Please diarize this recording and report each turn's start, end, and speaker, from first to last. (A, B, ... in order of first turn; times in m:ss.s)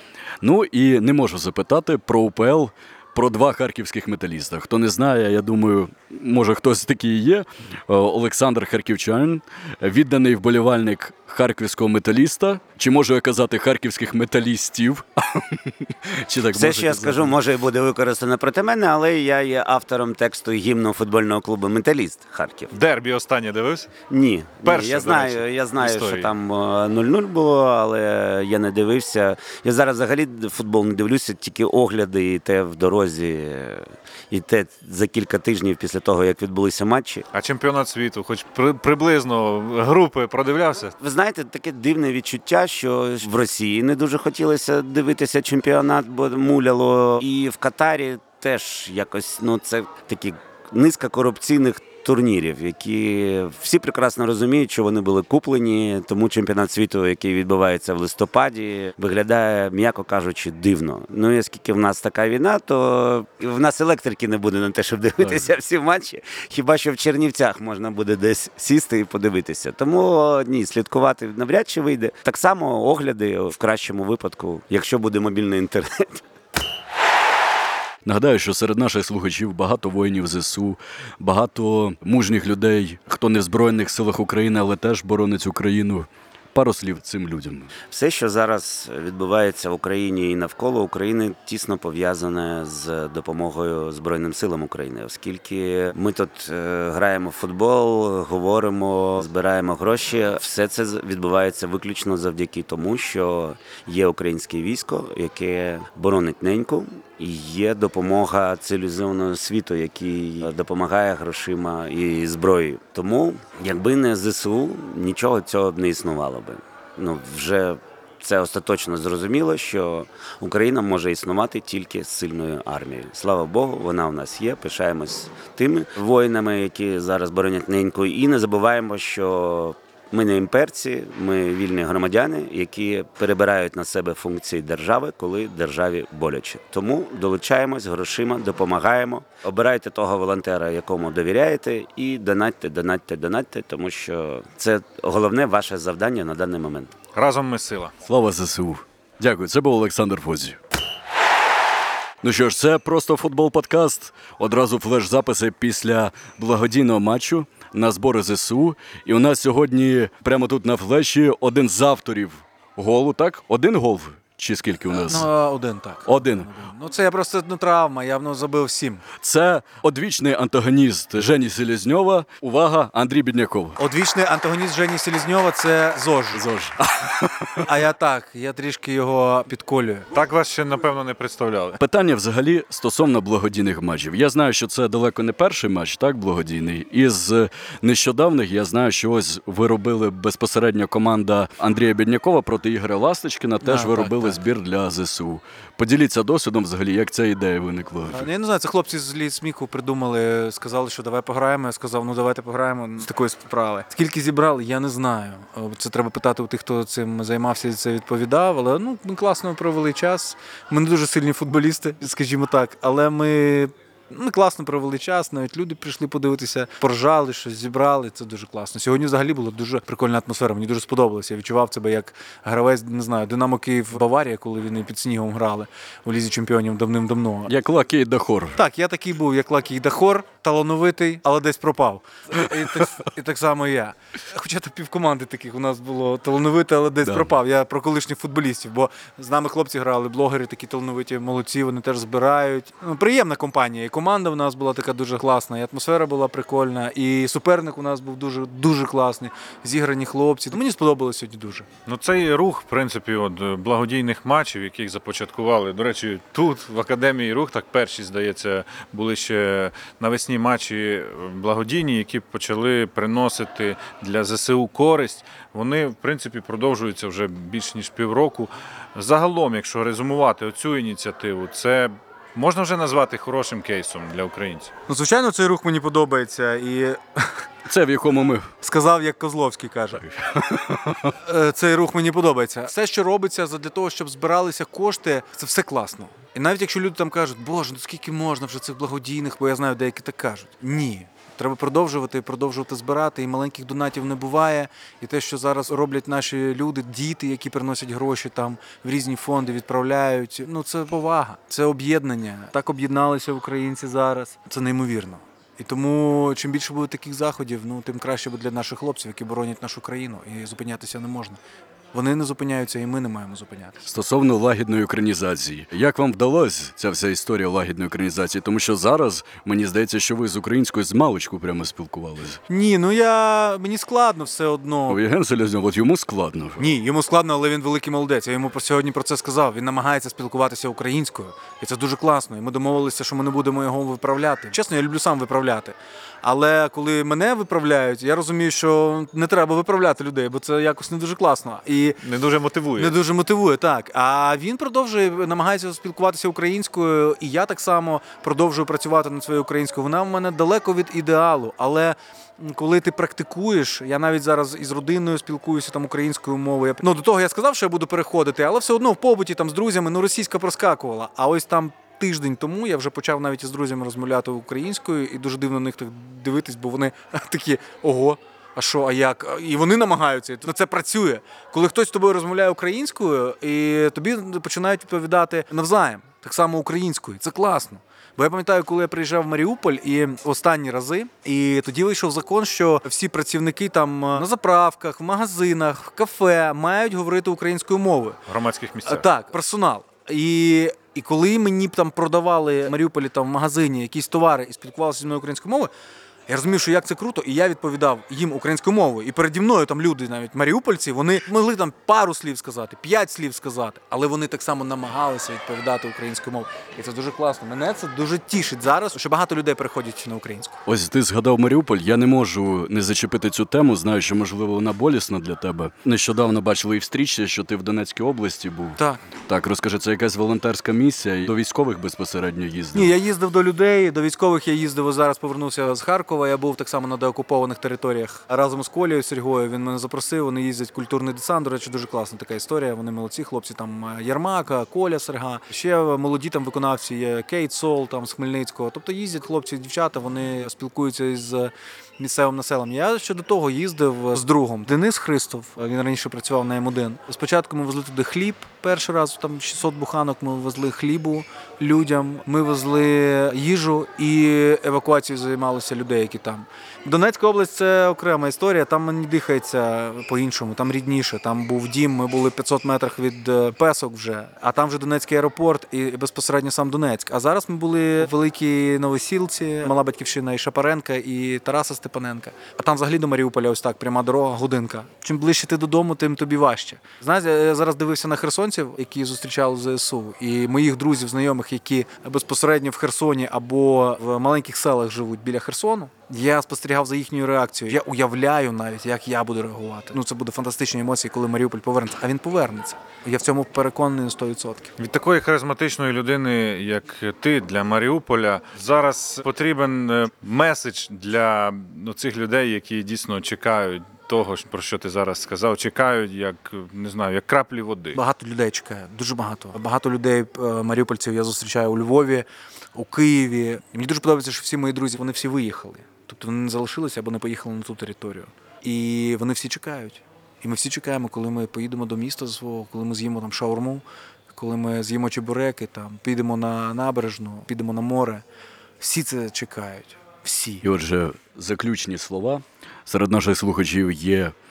0:00.4-0:17.3 A
0:16.5-0:22.7 B
0:22.7-0:23.9 C
0:24.1-0:37.2 B
0:24.6-0:26.3 C
0:37.3-0:40.9 C
0:41.0-1:16.2 B
1:18.0-1:27.7 A
1:27.9-2:26.9 B
2:27.1-2:27.9 C
2:28.1-2:30.6 A
2:32.2-2:45.3 A
2:44.9-2:49.0 D
2:46.1-2:46.5 A
2:49.2-2:53.8 A
2:53.8-2:56.4 D
2:56.4-2:57.7 A
2:57.6-3:00.1 D
3:00.1-3:01.8 C
3:01.8-3:18.3 A
3:13.6-3:14.4 D
3:18.1-3:47.5 D
3:47.5-3:48.6 A
3:48.6-4:11.7 D
3:57.0-3:57.3 A
4:11.9-4:34.7 C
4:34.9-4:37.5 D
4:37.7-4:38.5 A
4:38.6-4:40.0 D
4:40.1-4:41.2 A
4:41.2-5:11.4 D
5:11.9-5:13.9 D
5:13.9-5:22.4 A
5:22.5-5:25.0 D
5:24.9-5:26.6 A
5:26.6-5:42.0 D
5:42.0-5:43.0 C
5:42.8-6:28.2 D
6:28.3-6:29.1 C
6:28.8-6:35.7 D
6:36.3-6:50.6 D
6:50.7-7:02.9 A
7:02.7-8:14.7 D
8:14.8-8:28.0 C
8:27.9-8:48.2 D
8:48.8-8:50.6 D
8:50.6-8:54.4 A